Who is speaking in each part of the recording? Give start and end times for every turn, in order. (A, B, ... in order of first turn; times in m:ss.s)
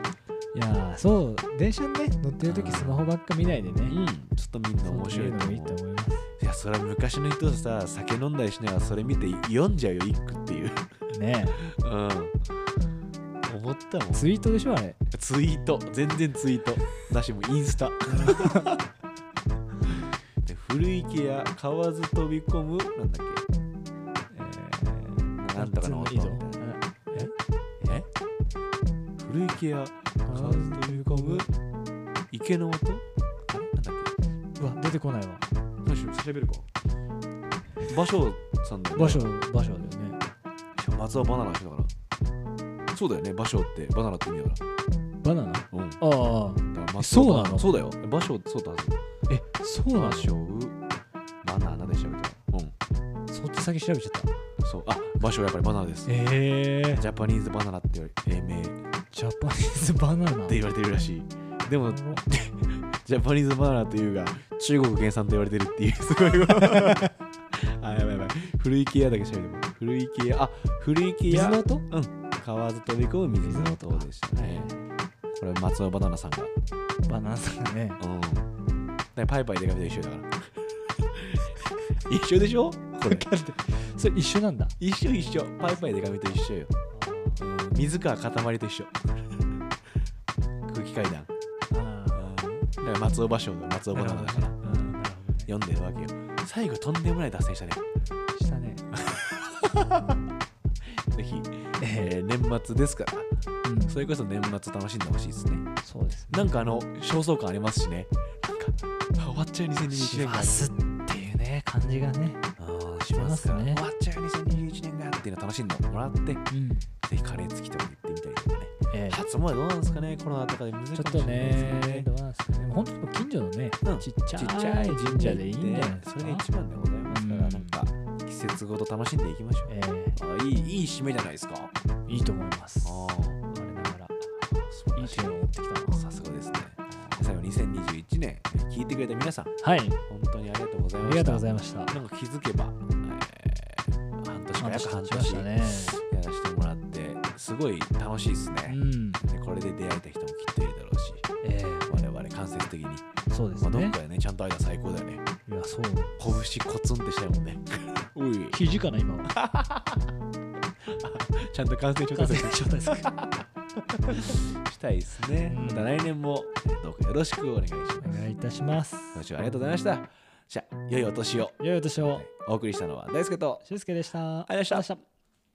0:00.5-0:04.0 A
0:02.4-0:03.1 B
0:03.9-0:05.8 B
0:04.8-0:06.3 A
0:06.4-0:10.9 B
0:11.1-0:11.6 A
0:11.6-0:12.4 B
0:13.4-0:14.2 B
0:14.1-0:15.0 A
0:15.1-0:18.8 B
0:18.2-0:18.7 A
0:19.8-0:23.5 B
0:24.3-0:27.3 A
0:25.4-0:28.1 B
0:29.2-0:31.5 B
0:30.3-0:31.5 A
0:32.3-0:34.1 B
0:34.6-0:35.5 A
0:35.8-0:36.7 B
0:37.9-0:39.3 B
0:38.9-0:40.2 A
0:40.8-0:41.9 B
0:42.9-0:44.6 B
0:45.2-0:47.7 A
0:45.7-0:46.0 B
0:46.7-0:49.0 B
0:49.3-0:50.4 A
0:49.9-0:50.8 B
0:51.4-0:52.8 B
0:53.3-0:54.3 A
0:54.6-0:56.1 B
0:56.1-0:57.0 A
0:57.0-0:58.8 B
0:59.1-1:00.6 A
1:00.5-1:14.7 B
1:01.9-1:02.3 A
1:06.6-1:07.1 A
1:11.3-1:11.9 A
1:13.4-1:14.9 A
1:15.3-1:16.5 B
1:17.1-1:18.0 A
1:18.0-1:18.5 B
1:19.2-1:23.3 B
1:23.0-1:24.8 A
1:24.8-1:26.7 B
1:25.6-1:27.4 A
1:27.4-1:29.4 B
1:30.7-1:31.3 B
1:31.7-1:32.4 A
1:32.1-1:34.9 B
1:33.9-1:35.5 A
1:35.5-1:37.9 B
1:38.4-1:38.9 A
1:38.9-1:40.2 B
1:40.9-1:43.3 B
1:41.8-1:42.1 A
1:43.6-1:44.0 A
1:43.9-1:45.7 B
1:45.8-1:46.6 A
1:46.3-1:50.7 B
1:49.9-1:52.4 A
1:52.6-1:56.5 B
1:53.1-1:53.8 A
1:56.5-1:56.9 A
1:57.0-2:02.1 B
1:58.9-1:59.2 A
2:00.9-2:06.5 A
2:03.8-2:11.7 B
2:07.1-2:07.8 A
2:09.7-2:10.2 A
2:12.1-2:14.3 A
2:12.8-2:13.4 B
2:14.5-2:19.5 B
2:14.9-2:16.1 A
2:19.6-2:20.0 A
2:20.1-2:31.3 B
2:21.0-2:22.0 A
2:24.6-2:26.0 A
2:28.7-2:29.2 A
2:31.4-2:32.0 A
2:31.9-2:33.1 B
2:33.3-2:34.0 A
2:33.6-2:35.3 B
2:35.5-2:36.4 A
2:36.2-2:38.6 B
2:38.5-2:39.3 A
2:39.2-2:40.1 B
2:40.8-2:48.3 B
2:42.1-2:43.1 A
2:45.4-2:45.9 A
2:48.0-2:49.2 A
2:49.1-2:53.6 B
2:51.6-2:52.3 A
2:53.6-2:55.0 A
2:54.5-2:54.9 B